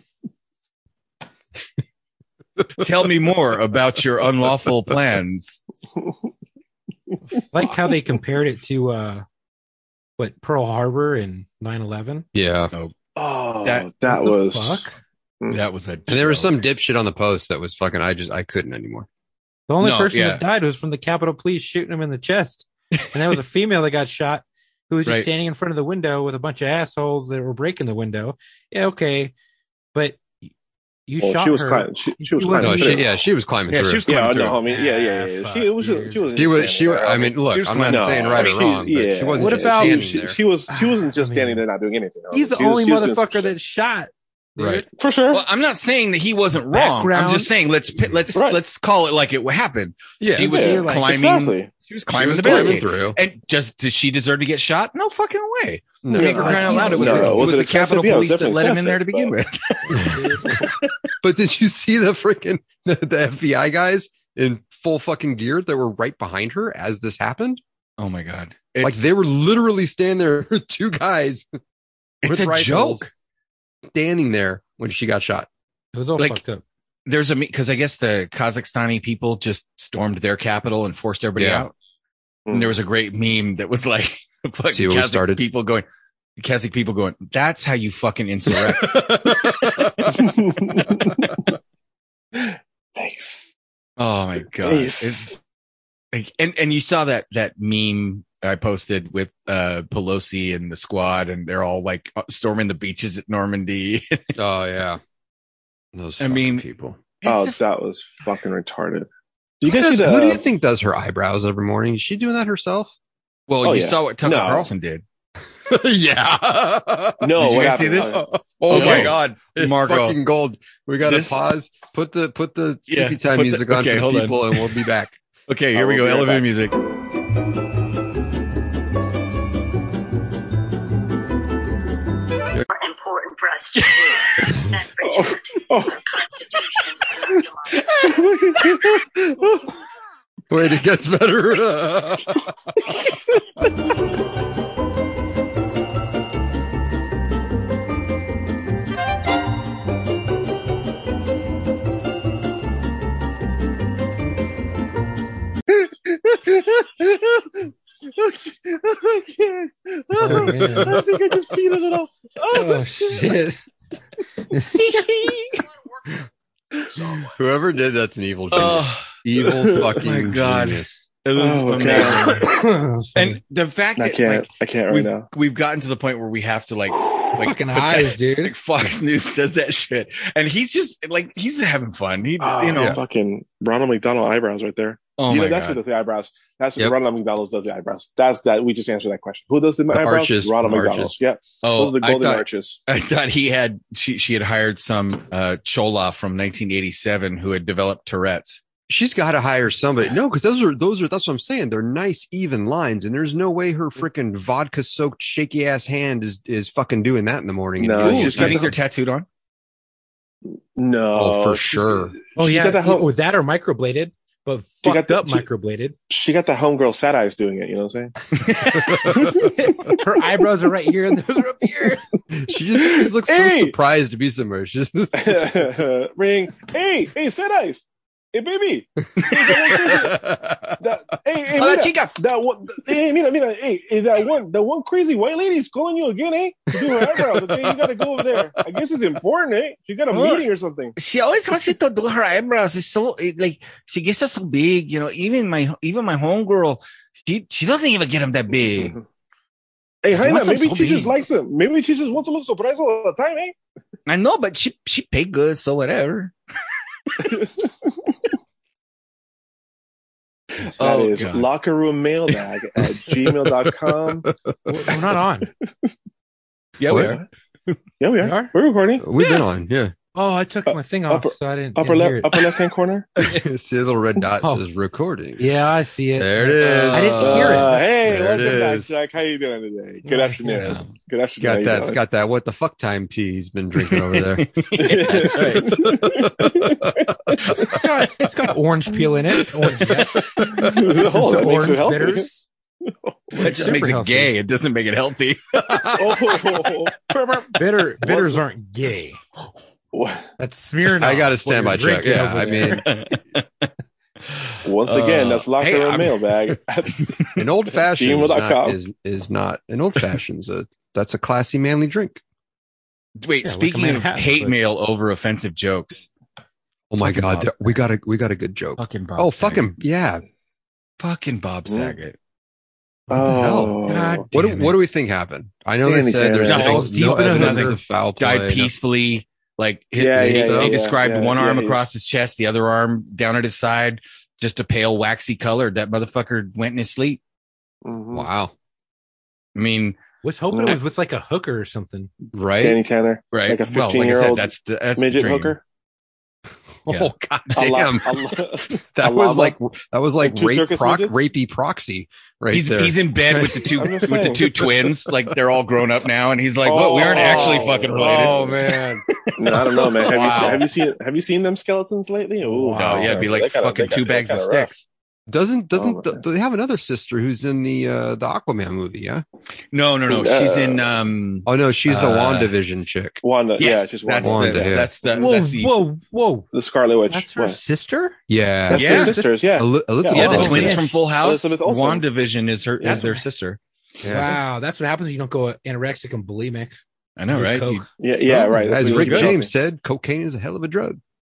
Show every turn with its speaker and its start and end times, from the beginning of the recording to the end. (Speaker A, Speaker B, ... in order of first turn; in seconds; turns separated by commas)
Speaker A: 2.8-5.6, Speaker B: 7.5-9.3, Speaker B: 10.2-12.3, Speaker C: 12.3-12.7, Speaker D: 13.2-14.9, Speaker A: 13.6-13.9, Speaker B: 14.1-14.9, Speaker A: 15.5-16.6, Speaker C: 16.1-19.1, Speaker B: 19.7-29.3, Speaker A: 19.8-20.4, Speaker B: 29.9-30.2, Speaker B: 31.1-33.1, Speaker D: 31.2-33.0, Speaker C: 32.5-34.1, Speaker A: 33.7-34.6, Speaker D: 34.1-43.5, Speaker B: 34.6-36.5, Speaker C: 36.4-40.4, Speaker A: 37.5-38.7, Speaker B: 39.4-40.1, Speaker B: 40.7-41.6, Speaker B: 42.3-44.9, Speaker C: 44.6-44.9, Speaker D: 44.9-45.4, Speaker A: 45.3-60.1, Speaker B: 46.7-47.5, Speaker C: 50.2-50.5, Speaker B: 50.4-51.1, Speaker D: 50.4-51.7, Speaker C: 52.1-53.2, Speaker C: 56.0-57.6, Speaker D: 56.1-59.3, Speaker B: 56.6-57.3, Speaker C: 59.9-60.3, Speaker B: 60.1-60.5, Speaker C: 61.2-67.6, Speaker A: 68.0-69.0, Speaker C: 68.8-71.5, Speaker A: 72.2-73.1, Speaker C: 72.2-73.1, Speaker C: 73.9-75.5, Speaker B: 75.9-76.6, Speaker A: 77.1-81.7, Speaker C: 81.4-81.7, Speaker D: 82.5-82.8, Speaker A: 82.5-85.9, Speaker C: 84.7-85.4, Speaker A: 86.4-89.8, Speaker C: 88.6-90.2, Speaker D: 90.1-91.3, Speaker D: 92.3-93.5, Speaker A: 94.0-95.4, Speaker D: 94.6-95.4, Speaker A: 96.1-104.2, Speaker C: 104.4-105.0, Speaker C: 105.9-107.0, Speaker A: 106.2-106.7, Speaker A: 107.2-107.6, Speaker D: 107.2-109.1, Speaker D: 109.6-110.4, Speaker C: 109.7-113.0, Speaker A: 113.5-115.0, Speaker D: 113.6-114.7, Speaker C: 115.6-125.2, Speaker D: 117.2-119.1, Speaker A: 117.4-120.2, Speaker A: 121.0-121.4, Speaker A: 122.9-124.7, Speaker A: 125.5-126.8, Speaker D: 125.7-126.5, Speaker E: 132.7-137.7, Speaker D: 135.1-136.0, Speaker D: 137.8-139.7, Speaker C: 140.5-142.4, Speaker D: 156.3-157.4, Speaker D: 158.1-163.4, Speaker B: 160.2-161.0, Speaker B: 162.5-163.6, Speaker B: 164.5-164.9, Speaker A: 164.8-165.6, Speaker C: 167.2-171.0, Speaker A: 168.5-169.1, Speaker D: 169.7-169.9, Speaker A: 170.0-172.5, Speaker D: 171.4-172.7, Speaker B: 172.5-173.4, Speaker A: 173.2-183.0, Speaker D: 174.0-175.3, Speaker B: 177.4-178.5, Speaker D: 182.4-192.8, Speaker C: 182.7-183.0, Speaker A: 185.2-185.8, Speaker C: 189.9-191.2, Speaker A: 191.6-198.6, Speaker C: 198.9-208.8, Speaker D: 207.8-208.7, Speaker A: 208.0-209.3, Speaker D: 210.5-213.1, Speaker C: 211.1-212.2, Speaker B: 212.4-216.0, Speaker D: 214.8-215.4, Speaker D: 216.1-218.3, Speaker A: 218.4-219.3, Speaker D: 219.1-220.0, Speaker B: 219.3-222.0, Speaker D: 221.7-222.0, Speaker C: 222.3-225.6, Speaker D: 222.8-223.8, Speaker D: 225.2-230.2, Speaker C: 229.3-230.9, Speaker D: 230.8-240.9, Speaker A: 231.6-232.2, Speaker C: 238.3-238.8, Speaker A: 240.1-249.0, Speaker D: 250.0-253.6, Speaker A: 250.1-251.2, Speaker A: 254.1-256.3, Speaker D: 257.2-258.4, Speaker D: 260.8-264.3, Speaker A: 260.8-261.5, Speaker C: 264.2-264.6, Speaker B: 264.7-265.5, Speaker D: 265.5-265.9, Speaker A: 266.8-267.8, Speaker C: 266.9-267.2, Speaker D: 266.9-267.2, Speaker D: 268.0-269.1, Speaker B: 268.2-268.5, Speaker C: 269.0-269.9, Speaker B: 270.1-272.3, Speaker D: 270.7-273.1, Speaker C: 273.2-275.6, Speaker B: 275.4-277.8, Speaker C: 276.2-279.0, Speaker A: 276.6-277.8, Speaker D: 277.2-282.0, Speaker B: 280.1-280.7, Speaker C: 281.4-287.4, Speaker A: 283.9-286.3, Speaker D: 284.8-287.8, Speaker A: 287.5-288.2, Speaker B: 287.8-292.4, Speaker A: 289.5-290.7, Speaker D: 290.6-292.3, Speaker D: 292.9-293.5, Speaker B: 293.4-294.3, Speaker A: 293.4-296.4, Speaker D: 295.9-298.4, Speaker B: 297.6-299.2, Speaker D: 299.9-300.3, Speaker B: 300.4-302.9, Speaker C: 301.0-302.9, Speaker A: 302.1-303.7, Speaker A: 304.3-306.3, Speaker D: 304.6-307.1, Speaker C: 307.4-312.2, Speaker D: 308.0-308.8, Speaker A: 313.2-316.1, Speaker B: 313.4-314.6, Speaker C: 316.9-320.2, Speaker A: 317.0-317.8, Speaker A: 318.8-319.7, Speaker A: 321.0-322.2, Speaker D: 321.7-321.9, Speaker D: 323.1-324.3, Speaker C: 323.2-328.7, Speaker A: 323.8-324.8, Speaker D: 325.9-326.9, Speaker A: 326.4-337.2, Speaker B: 326.9-327.7, Speaker D: 330.0-331.8, Speaker C: 330.1-330.7, Speaker D: 337.8-338.3, Speaker C: 338.1-338.5, Speaker A: 339.6-340.0, Speaker B: 340.2-342.1, Speaker D: 340.5-340.8, Speaker C: 342.3-342.8, Speaker D: 342.6-345.6, Speaker A: 343.3-345.6, Speaker C: 346.9-355.1, Speaker A: 346.9-348.0, Speaker D: 347.5-349.6, Speaker D: 350.2-351.2, Speaker A: 352.5-360.7, Speaker D: 353.8-354.5, Speaker D: 356.6-358.7, Speaker D: 359.4-364.7, Speaker B: 362.5-363.2, Speaker A: 362.7-364.9, Speaker C: 365.3-369.2, Speaker D: 365.8-366.2, Speaker A: 369.7-372.5, Speaker D: 370.1-370.9, Speaker C: 371.5-373.2, Speaker D: 373.2-375.2, Speaker A: 373.6-375.7, Speaker C: 374.2-374.9, Speaker B: 375.1-376.5, Speaker D: 376.5-377.6, Speaker B: 377.1-379.3, Speaker C: 378.3-380.8, Speaker D: 378.7-382.1, Speaker A: 378.7-379.2, Speaker B: 380.1-381.1, Speaker A: 380.1-383.6, Speaker D: 382.8-383.1, Speaker C: 384.0-384.4, Speaker B: 384.1-386.8, Speaker A: 387.2-389.3, Speaker B: 387.3-387.9, Speaker D: 388.0-389.5, Speaker C: 388.5-391.0